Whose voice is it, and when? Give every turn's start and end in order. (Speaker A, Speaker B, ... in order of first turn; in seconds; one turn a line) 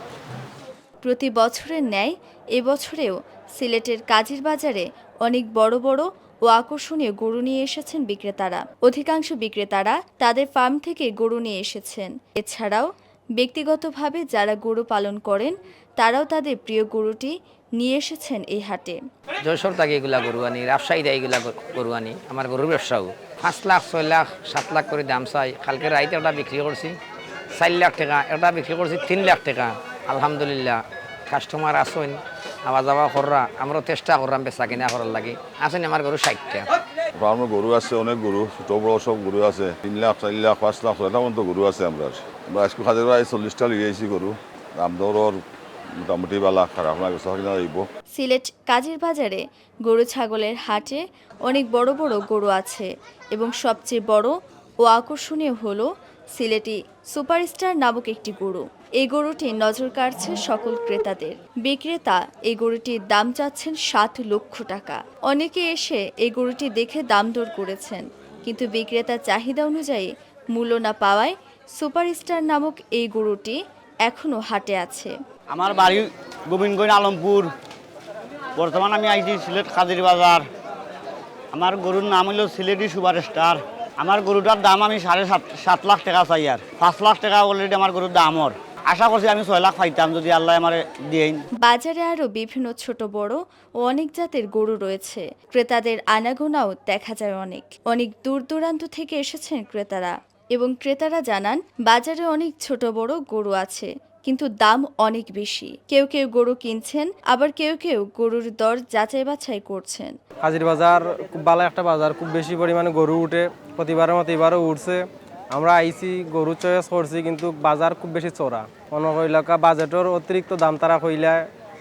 Speaker A: 1.0-19.0
Speaker B: 19.4-26.9
Speaker B: 27.5-36.7
Speaker C: 37.2-45.4
Speaker C: 46.0-47.8
Speaker A: 48.1-75.1
Speaker D: 75.5-77.5
Speaker D: 78.5-80.5
Speaker D: 81.5-91.4
Speaker A: 91.6-110.1
Speaker E: 110.4-121.5